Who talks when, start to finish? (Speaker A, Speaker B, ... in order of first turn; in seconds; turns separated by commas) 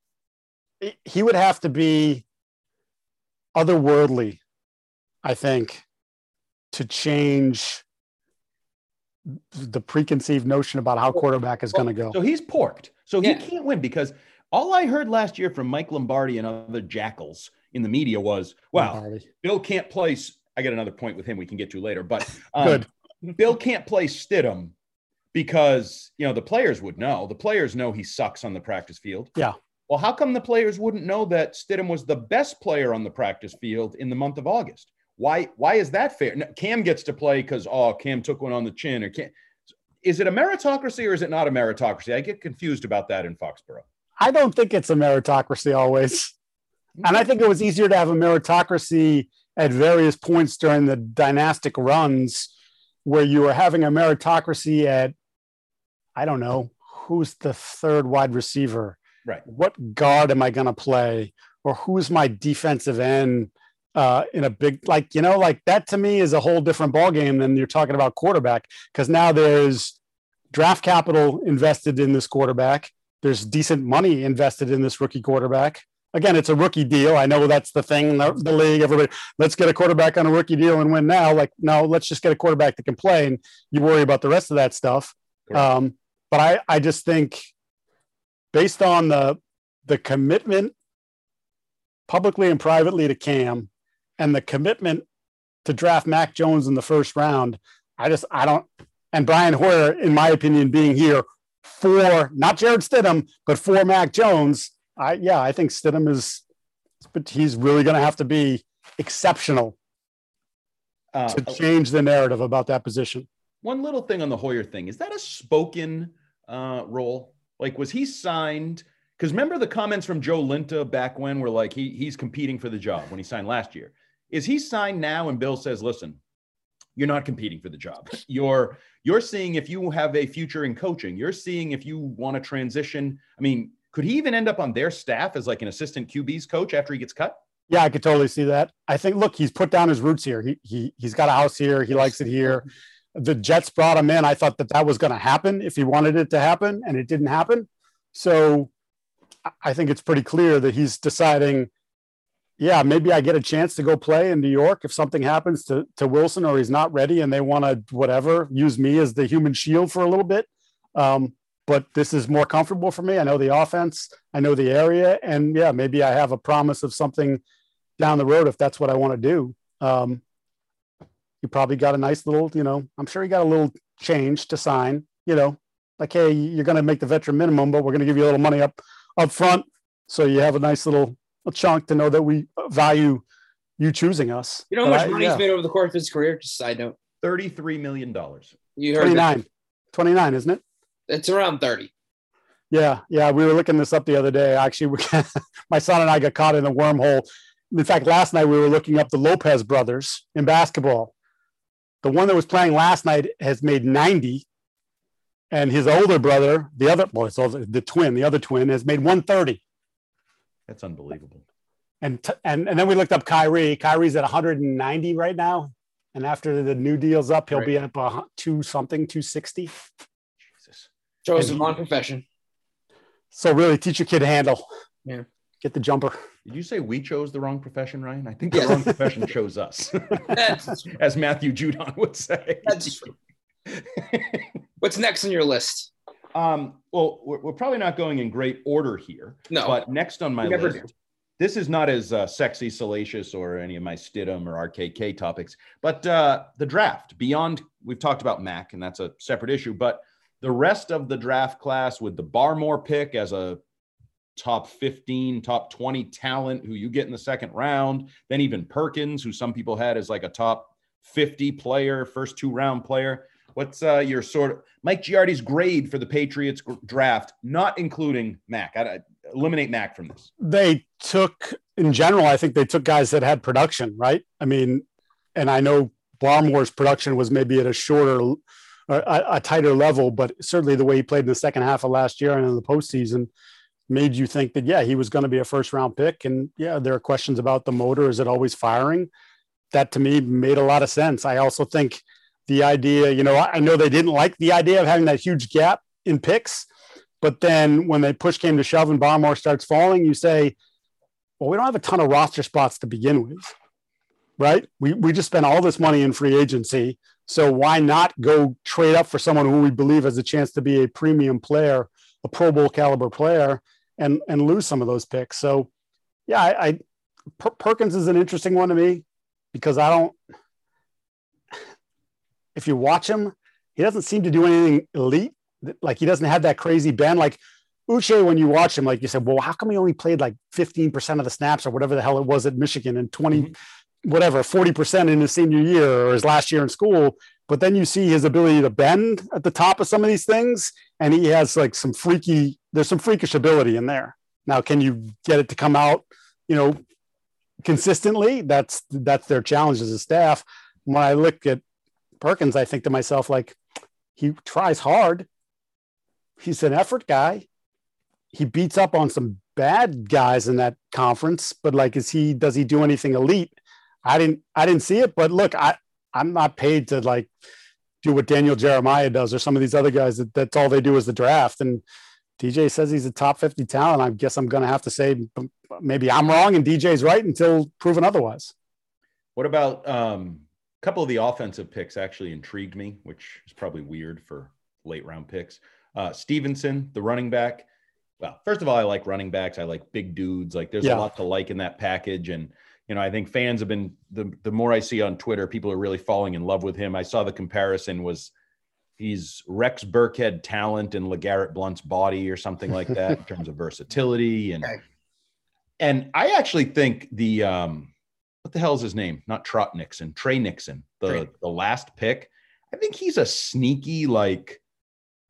Speaker A: 0.8-2.2, Speaker A: 3.5-4.4, Speaker A: 5.2-5.8, Speaker A: 6.7-7.8, Speaker A: 9.5-12.2, Speaker B: 12.1-24.7, Speaker A: 18.8-19.2, Speaker A: 22.6-22.9, Speaker B: 25.3-29.3, Speaker B: 29.9-39.3, Speaker B: 40.0-43.9, Speaker A: 44.2-46.3, Speaker A: 47.0-52.5, Speaker A: 53.0-55.1, Speaker A: 56.1-70.0, Speaker A: 70.5-87.5, Speaker A: 88.5-90.7, Speaker A: 92.1-95.0, Speaker A: 95.7-106.4, Speaker A: 107.0-109.8, Speaker B: 111.1-111.6, Speaker A: 111.3-113.3, Speaker B: 113.6-126.2, Speaker B: 127.0-137.4, Speaker A: 137.7-148.7, Speaker A: 149.5-151.7, Speaker A: 152.6-167.4, Speaker A: 168.0-170.2, Speaker A: 171.4-183.2, Speaker A: 183.8-185.4, Speaker C: 184.7-186.9, Speaker B: 187.2-188.5, Speaker C: 188.8-189.3, Speaker A: 189.0-190.6, Speaker C: 191.1-191.9, Speaker A: 192.7-201.1, Speaker A: 202.0-204.4, Speaker A: 205.5-209.6, Speaker B: 210.7-211.4, Speaker A: 212.0-219.7, Speaker B: 220.6-220.9, Speaker C: 221.2-222.2, Speaker A: 221.4-221.7, Speaker A: 223.3-224.6, Speaker A: 225.6-226.2, Speaker B: 226.5-233.1, Speaker C: 228.5-228.8, Speaker C: 230.3-230.8, Speaker C: 232.6-233.1, Speaker B: 233.9-234.5, Speaker C: 234.8-235.9, Speaker B: 236.3-253.6, Speaker C: 239.5-239.8, Speaker C: 240.4-240.9, Speaker B: 254.4-270.3, Speaker A: 270.4-283.3, Speaker A: 283.9-289.1, Speaker A: 289.7-296.7, Speaker A: 297.2-300.5, Speaker A: 301.4-303.5, Speaker A: 304.4-315.7, Speaker A: 316.3-316.8, Speaker A: 317.4-320.2, Speaker A: 322.5-346.8, Speaker A: 347.6-351.6, Speaker A: 352.2-353.6, Speaker A: 354.1-355.3, Speaker A: 356.4-357.5, Speaker A: 358.3-363.5, Speaker A: 364.0-367.3, Speaker A: 368.0-371.8, Speaker A: 372.4-378.5, Speaker B: 379.4-387.6, Speaker B: 388.2-398.3, Speaker A: 390.8-391.1, Speaker B: 399.0-404.8, Speaker B: 405.8-407.9, Speaker B: 408.4-414.6